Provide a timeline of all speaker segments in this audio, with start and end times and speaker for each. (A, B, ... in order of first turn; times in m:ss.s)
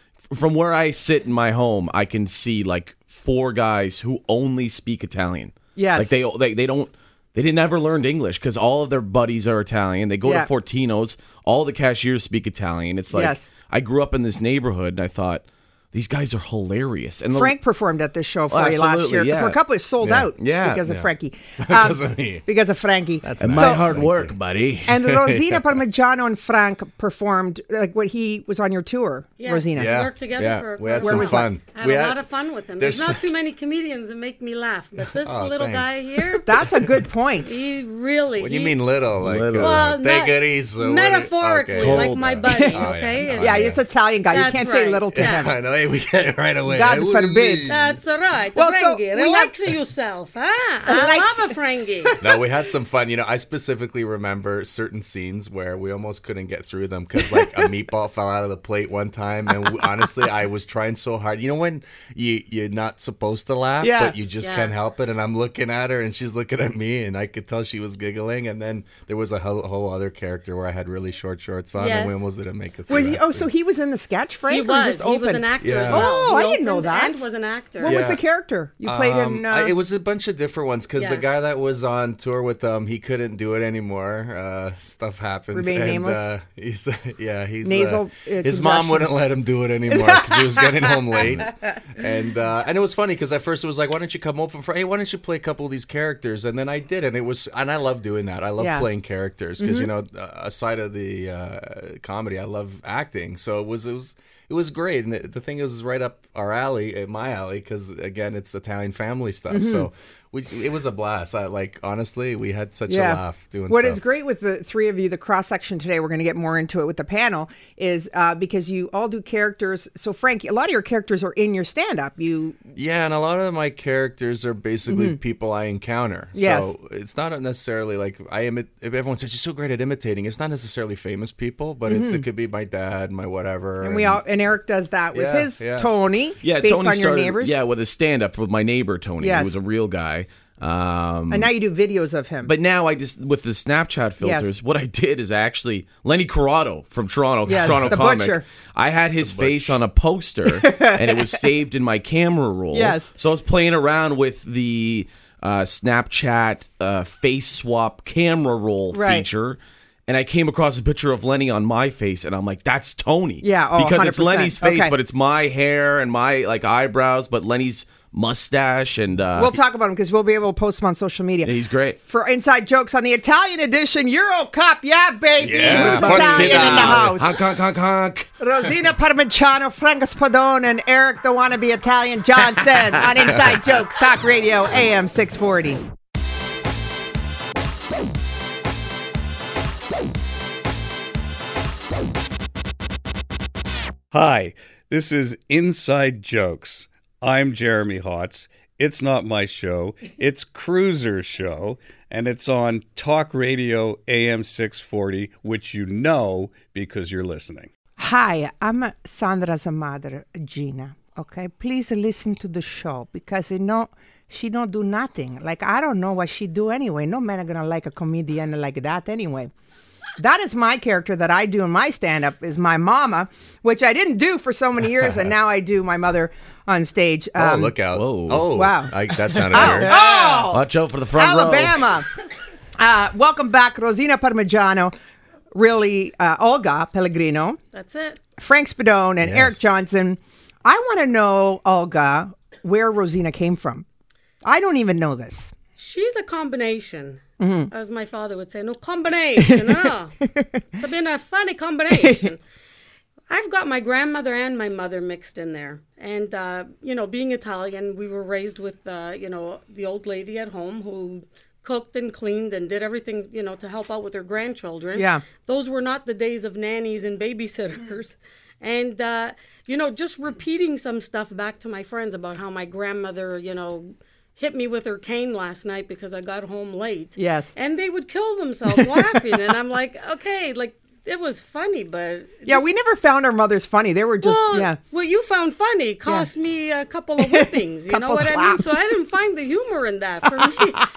0:00.3-0:17.6 A
0:05.8-0:06.1 B
0:10.2-0:10.5 B
0:13.1-0:13.4 B
0:17.3-0:23.9 B
0:18.5-0:20.8 A
0:21.6-0:22.4 C
0:23.2-0:24.3 C
0:23.4-0:24.9 A
0:24.9-0:30.0 B
0:25.1-0:25.8 C
0:29.4-0:36.5 D
0:29.8-0:32.2 C
0:31.0-0:31.5 B
0:32.8-0:33.2 C
0:35.0-0:36.0 C
0:36.4-0:37.5 B
0:36.6-0:36.8 C
0:37.4-0:38.8 D
0:38.4-0:43.8 C
0:39.2-0:39.9 A
0:39.6-0:43.6 D
0:41.8-0:42.5 A
0:42.5-0:42.8 B
0:43.3-0:45.5 B
0:44.3-0:45.5 D
0:45.1-0:48.0 C
0:46.7-0:47.7 B
0:47.7-0:52.1 D
0:48.5-0:49.5 B
0:50.9-0:52.4 B
0:52.2-1:13.5 C
1:03.8-1:04.1 B
1:04.4-1:04.7 D
1:11.8-1:12.2 D
1:12.9-1:17.2 B
1:14.5-1:18.0 D
1:15.6-1:16.3 C
1:17.8-1:19.7 B
1:17.8-1:18.2 C
1:18.8-1:54.0 C
1:21.0-1:21.2 D
1:25.5-1:26.2 B
1:27.6-1:29.1 B
1:29.9-1:31.5 B
1:38.6-1:38.9 B
1:39.6-1:39.9 B
1:49.5-1:49.9 B
1:52.9-2:02.6 B
2:02.8-2:14.2 C
2:04.9-2:05.2 B
2:06.3-2:06.7 B
2:11.9-2:12.2 B
2:13.8-2:17.5 B
2:15.1-2:15.9 C
2:16.4-2:21.5 A
2:19.2-2:19.5 B
2:21.3-2:22.5 B
2:22.4-2:49.6 A
2:24.2-2:24.5 B
2:27.4-2:28.4 B
2:29.2-2:29.8 C
2:30.5-2:31.4 B
2:32.7-2:33.1 B
2:38.9-2:39.2 B
2:43.4-2:44.9 B
2:49.3-2:51.5 B
2:51.4-2:52.0 A
2:52.1-2:57.3 B
2:55.4-2:57.2 C
2:55.5-2:58.2 A
2:58.4-3:05.8 B
3:14.1-3:27.7 E
3:28.0-3:39.5 B
3:40.2-3:47.8 B
3:47.4-3:50.0 C
3:47.9-3:48.5 A
3:48.5-3:48.9 B
3:49.5-3:52.1 B
3:49.7-3:51.8 A
3:52.8-3:54.9 B
3:55.5-3:57.6 B
3:57.7-3:58.2 D
3:58.4-4:03.8 B
3:59.2-3:59.6 C
4:04.4-4:05.5 B
4:05.8-4:10.1 D
4:07.4-4:07.7 B
4:09.4-4:10.4 B
4:10.8-4:12.4 D
4:11.9-4:12.3 B
4:13.3-4:42.6 D
4:24.9-4:25.2 B
4:37.2-4:37.5 B
4:38.8-4:39.2 B
4:42.4-4:44.8 B
4:44.2-4:50.8 D
4:47.2-4:48.8 B
4:50.4-4:50.8 B